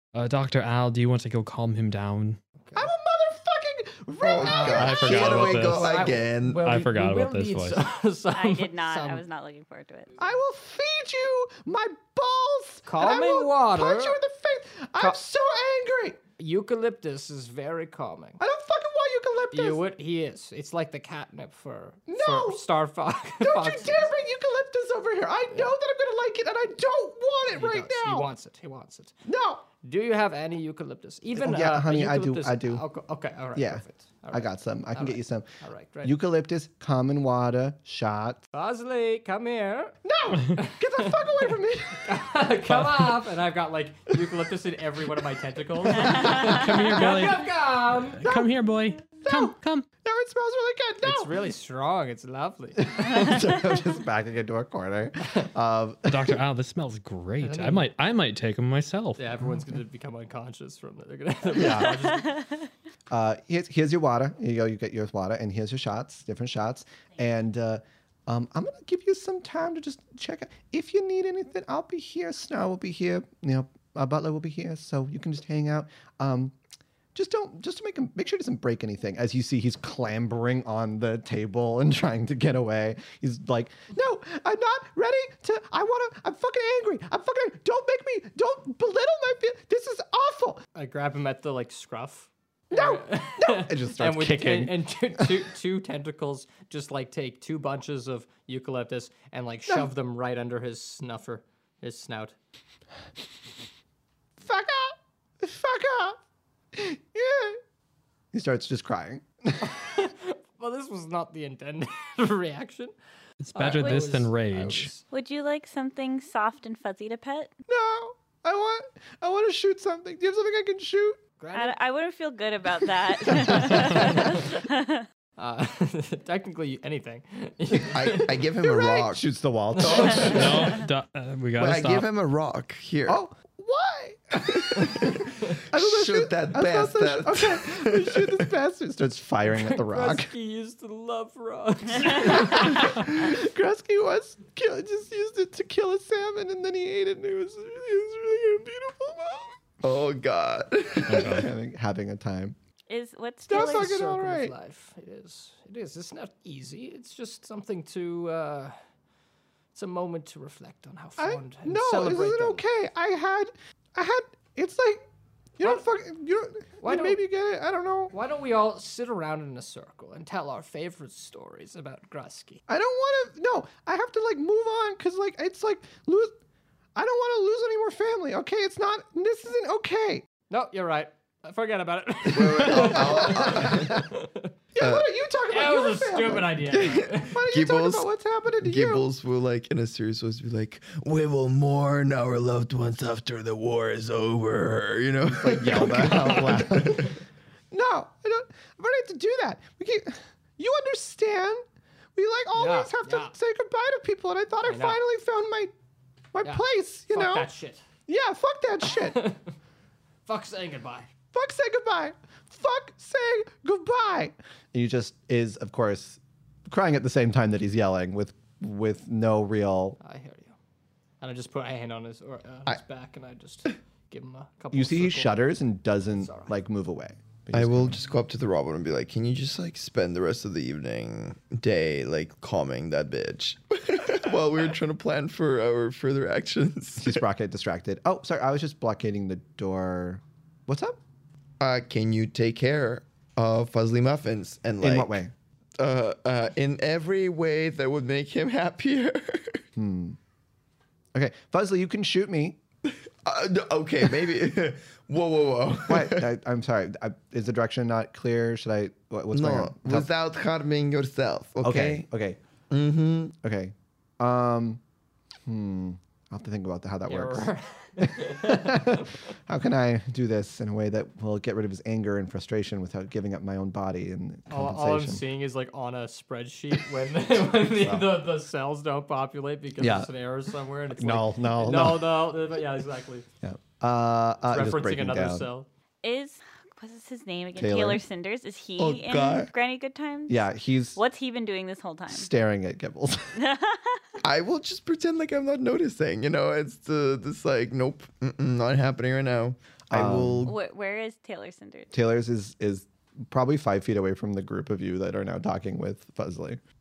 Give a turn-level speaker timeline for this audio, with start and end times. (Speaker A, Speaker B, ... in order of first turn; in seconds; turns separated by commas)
Speaker A: 0.1-2.4, Speaker B: 2.7-5.1, Speaker C: 4.2-6.9, Speaker D: 4.4-9.2, Speaker A: 4.7-6.1, Speaker A: 6.6-7.8, Speaker E: 8.3-10.1, Speaker B: 10.2-16.2, Speaker D: 12.8-14.2, Speaker D: 16.4-18.4, Speaker B: 18.4-19.8, Speaker D: 19.5-24.1, Speaker B: 22.1-22.6, Speaker B: 23.4-28.3, Speaker D: 27.5-29.1, Speaker B: 29.2-29.6, Speaker D: 29.8-36.1, Speaker B: 31.3-32.8, Speaker B: 33.5-35.5, Speaker B: 36.0-38.4, Speaker D: 38.5-40.0, Speaker B: 40.0-42.1, Speaker D: 40.5-48.2, Speaker A: 42.7-43.1, Speaker B: 45.9-46.6, Speaker A: 46.1-49.9, Speaker E: 46.1-46.4, Speaker B: 48.2-48.6, Speaker B: 49.2-51.3, Speaker D: 51.0-53.4, Speaker B: 52.8-56.4, Speaker A: 56.0-59.3, Speaker D: 57.4-57.9, Speaker D: 59.2-62.4, Speaker B: 61.5-62.1, Speaker E: 62.1-62.6, Speaker B: 63.1-76.5, Speaker B: 77.1-90.6, Speaker D: 90.7-102.3, Speaker B: 92.7-95.3, Speaker B: 104.4-106.2, Speaker B: 106.7-107.6, Speaker B: 108.3-109.7, Speaker D: 109.6-112.9, Speaker A: 113.4-114.9, Speaker D: 113.5-115.0, Speaker E: 113.7-114.1, Speaker E: 115.1-117.5, Speaker B: 117.7-121.2, Speaker D: 121.4-121.8, Speaker E: 121.5-125.0, Speaker B: 123.3-124.0, Speaker D: 123.5-124.5, Speaker A: 123.8-124.1, Speaker D: 125.4-128.3, Speaker C: 127.9-130.5, Speaker B: 128.6-130.7, Speaker D: 129.8-130.8, Speaker A: 130.3-132.1, Speaker C: 131.6-133.2, Speaker B: 133.1-140.3, Speaker C: 134.4-138.5, Speaker D: 139.5-142.9, Speaker B: 142.2-149.6, Speaker E: 142.3-142.7, Speaker C: 149.8-151.5, Speaker A: 151.1-151.5, Speaker B: 151.1-152.6, Speaker E: 152.9-153.9, Speaker B: 153.5-154.5, Speaker D: 153.5-158.7, Speaker D: 159.7-162.6, Speaker B: 161.2-165.0, Speaker B: 165.6-168.1, Speaker D: 166.8-167.2, Speaker D: 168.1-172.6, Speaker B: 172.7-176.3, Speaker B: 176.9-180.2, Speaker D: 180.5-184.5, Speaker C: 182.2-184.0, Speaker B: 182.5-184.1, Speaker B: 184.7-186.7, Speaker C: 184.8-185.1, Speaker D: 185.5-187.4, Speaker C: 186.6-197.2, Speaker B: 187.3-189.0, Speaker B: 195.4-197.2, Speaker B: 197.7-201.6, Speaker B: 202.2-205.7, Speaker D: 202.5-203.3, Speaker D: 204.7-205.0, Speaker B: 206.3-207.5, Speaker D: 206.4-207.8, Speaker B: 208.1-209.2, Speaker D: 208.9-209.4, Speaker D: 210.2-211.1, Speaker B: 211.3-220.0, Speaker D: 220.0-220.5, Speaker D: 221.2-225.4, Speaker B: 224.7-228.0, Speaker D: 226.2-226.5, Speaker C: 227.5-237.2, Speaker B: 237.0-241.0, Speaker C: 241.6-245.2, Speaker B: 244.8-245.3, Speaker C: 245.8-249.6, Speaker B: 249.8-250.2, Speaker B: 251.1-252.6, Speaker C: 252.8-256.3, Speaker B: 255.9-260.1, Speaker C: 259.3-262.1, Speaker B: 261.6-262.4, Speaker C: 262.7-263.3, Speaker B: 263.4-264.8, Speaker B: 265.4-275.2, Speaker D: 267.1-268.9, Speaker D: 274.5-283.3, Speaker B: 277.7-278.1, Speaker B: 279.8-280.1, Speaker B: 280.9-282.3, Speaker B: 283.4-285.5, Speaker D: 284.5-285.7, Speaker E: 286.0-292.3, Speaker B: 287.6-288.0, Speaker C: 288.8-289.5, Speaker B: 290.3-291.0, Speaker B: 292.1-293.4, Speaker E: 293.4-294.0, Speaker C: 294.2-300.5, Speaker B: 299.9-300.5, Speaker E: 300.4-301.9, Speaker B: 301.9-306.6